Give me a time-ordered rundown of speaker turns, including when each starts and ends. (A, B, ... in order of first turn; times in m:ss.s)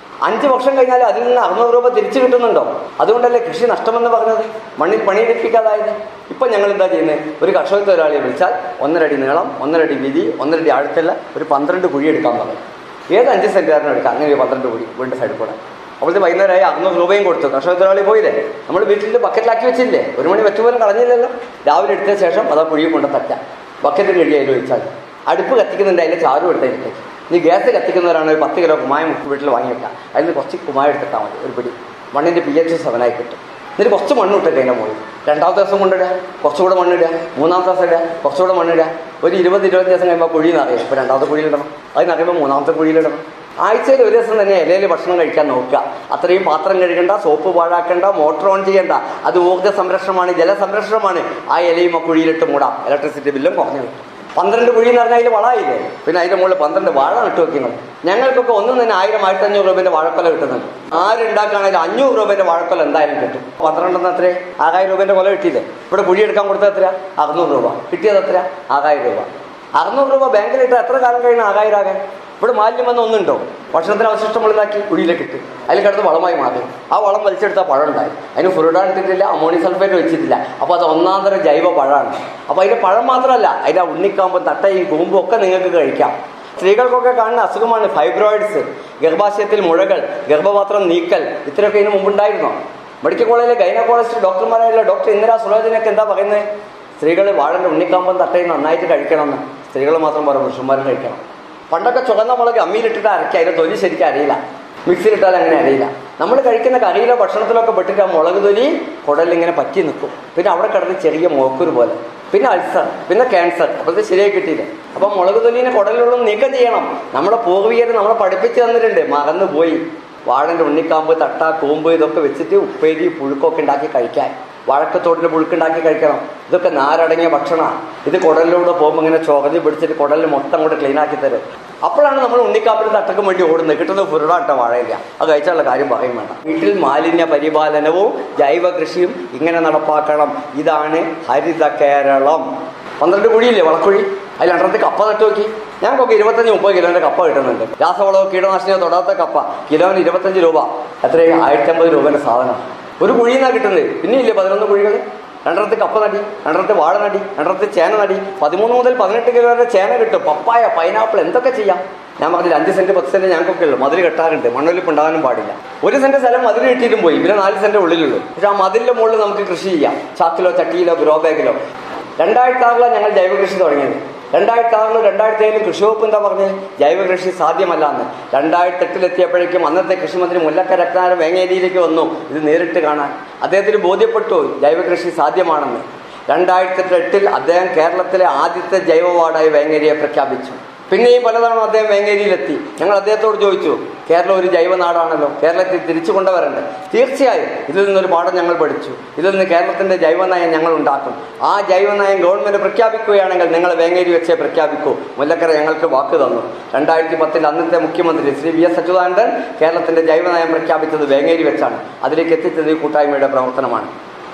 0:00.2-1:36.4 A
1:37.0-2:22.5 A
2:23.0-2:51.6 A
2:52.2-3:33.9 A